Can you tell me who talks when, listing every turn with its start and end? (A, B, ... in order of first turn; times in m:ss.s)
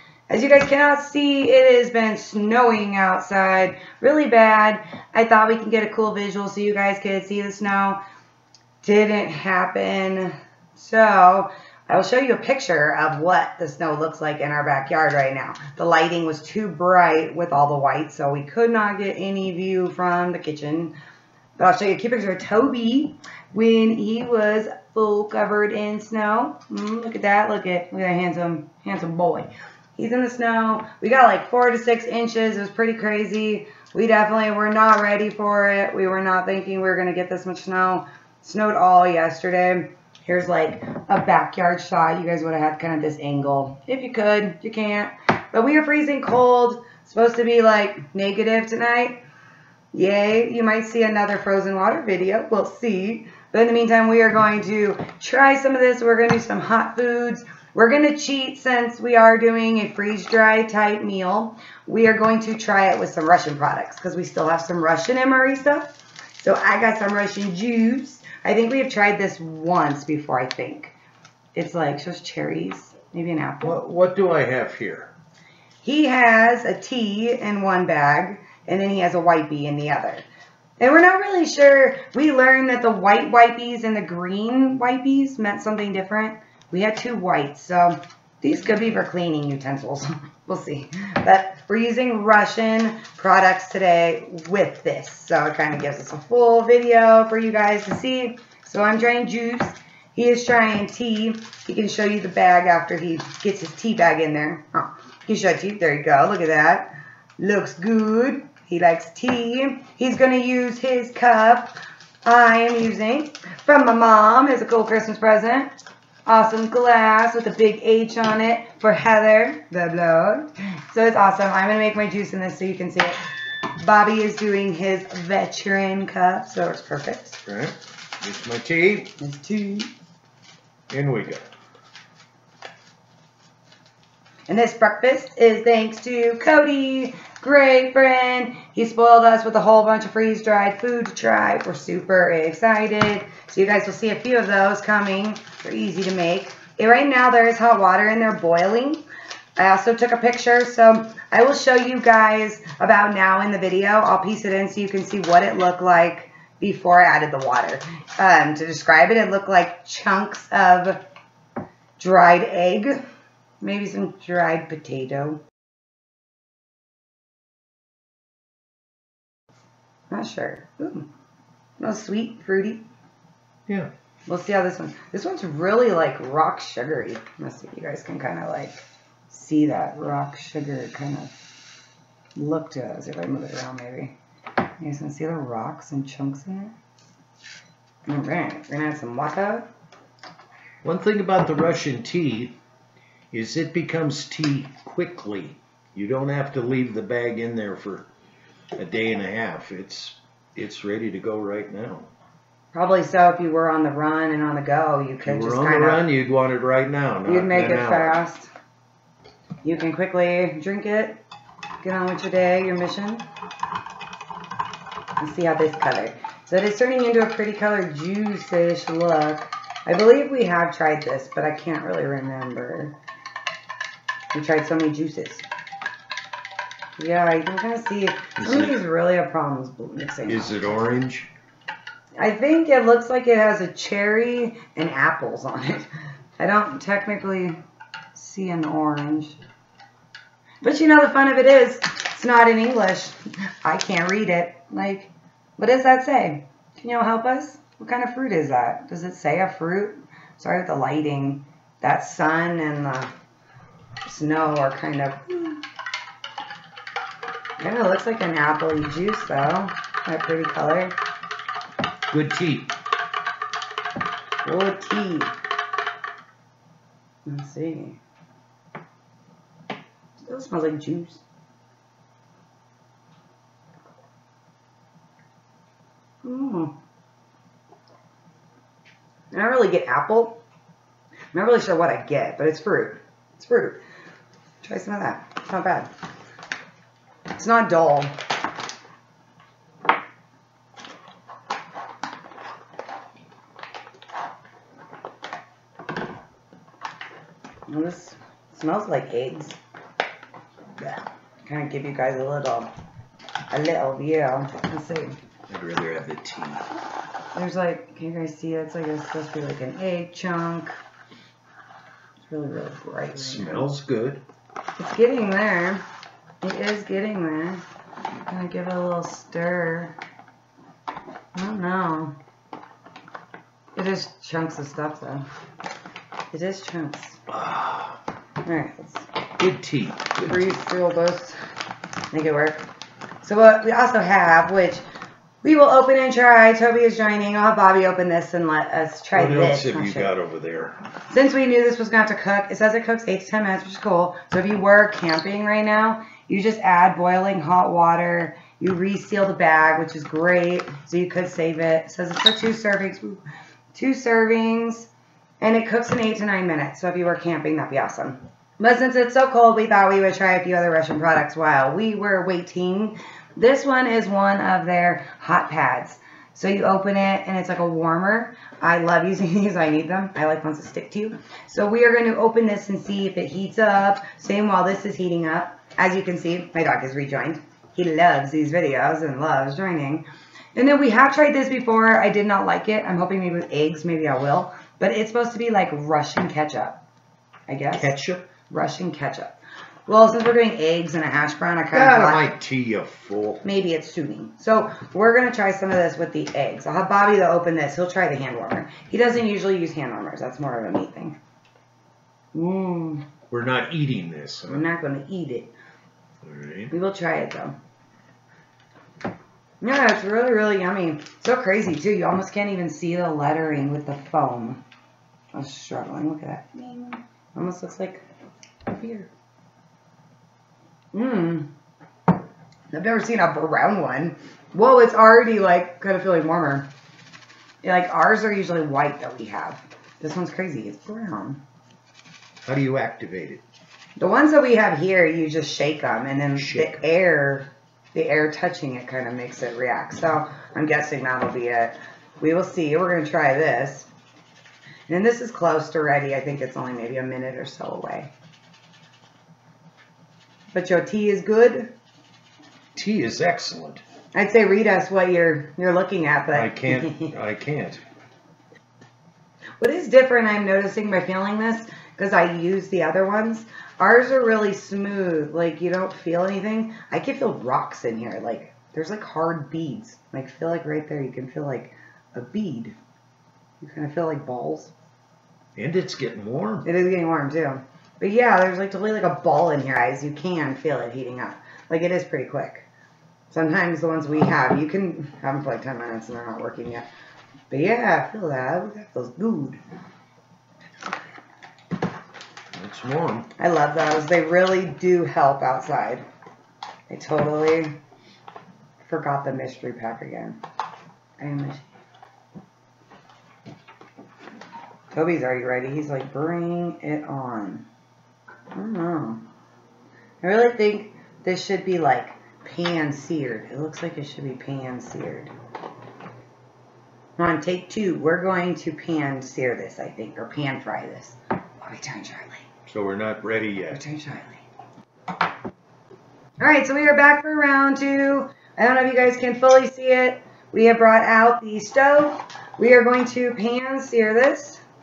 0:00.3-0:08.0 A
0:08.8-0:20.9 A
0:21.6-0:49.2 A
0:49.9-1:10.9 A
1:11.6-1:13.8 A
1:13.6-1:15.1 B
1:15.8-1:20.2 A
1:20.8-1:55.7 A
1:56.3-2:03.2 A
2:03.8-2:07.4 A
2:07.5-2:09.1 B
2:09.2-2:09.9 A
2:10.9-2:11.4 B
2:14.5-2:29.0 A
2:29.6-2:41.0 A
2:42.0-2:43.0 A
2:43.6-2:45.4 A
2:50.1-2:51.1 A
2:51.8-2:52.9 A
2:54.3-3:01.4 A
3:02.4-3:04.2 A
3:04.8-3:06.8 A
3:08.1-3:09.7 A
3:10.8-3:12.6 B
3:13.3-3:18.1 B
3:18.8-3:22.1 B
3:22.7-3:26.1 A
3:25.2-3:28.2 B
3:27.2-3:28.5 A
3:29.6-3:31.2 A
3:31.8-3:33.2 A
3:35.2-3:43.0 A
3:44.3-3:45.4 A
3:47.0-3:50.5 A
3:48.4-3:48.8 B
3:50.3-3:51.3 B
3:52.2-3:57.6 A
3:58.2-3:59.4 A
4:00.6-4:13.1 A
4:14.0-4:15.6 A
4:17.6-4:21.0 A
4:22.1-4:22.7 B
4:24.4-4:25.3 A
4:27.3-4:28.0 A
4:30.2-4:31.2 A
4:36.2-4:36.7 A
4:39.3-4:40.4 A
4:41.3-4:43.8 A
4:44.6-4:45.9 A
4:47.3-4:48.2 A
4:57.7-4:59.6 A
5:01.4-5:02.7 A
5:03.5-5:05.2 A
5:05.5-5:06.7 B
5:07.4-5:10.7 A
5:12.2-5:13.7 A
5:13.2-5:14.2 B
5:14.8-5:15.8 A
5:16.4-5:17.6 A
5:18.3-5:20.0 A
5:21.4-5:22.2 A
5:23.8-5:25.3 A
5:26.3-5:27.2 A
5:27.3-5:28.0 B
5:28.4-5:29.1 A
5:29.4-5:30.2 B
5:30.2-5:31.4 A
5:32.1-5:32.6 A
5:33.2-5:34.8 A
5:35.4-5:40.1 A
5:39.1-5:40.8 B
5:41.1-5:53.2 A
5:53.7-5:54.9 A
5:55.4-6:26.8 A
6:27.5-6:28.0 A
6:27.7-6:28.3 B
6:28.5-6:29.4 A
6:29.9-6:32.3 A
6:31.7-6:33.4 B
6:33.4-6:41.2 A
6:42.3-6:43.0 A
6:43.3-6:44.6 B
6:44.5-6:45.5 A
6:46.2-6:46.7 B
6:46.7-6:47.6 A
6:49.6-6:54.6 A
6:55.3-6:58.0 A
6:58.7-6:59.1 A
7:00.9-7:01.5 A
7:02.7-7:06.7 A
7:07.6-7:11.4 A
7:12.4-7:13.4 B
7:14.0-7:23.9 A
7:16.4-7:16.8 B
7:24.9-7:28.1 A
7:30.5-7:31.7 A
7:32.8-7:33.8 B
7:34.1-7:37.2 A
7:36.3-7:37.8 B
7:39.6-7:52.8 A
7:53.6-7:54.7 A
7:55.6-7:56.7 B
7:56.6-8:02.7 A
8:03.3-8:06.9 A
8:07.5-8:09.6 A
8:12.5-8:13.3 B
8:13.4-8:16.0 A
8:16.9-8:17.8 A
8:18.8-8:20.4 A
8:21.2-8:21.6 A
8:24.9-8:27.6 A
8:28.5-8:29.2 A
8:30.2-8:35.3 A
8:37.2-8:42.5 A
8:42.7-8:43.8 B
8:43.7-8:44.4 A
8:46.4-8:54.6 A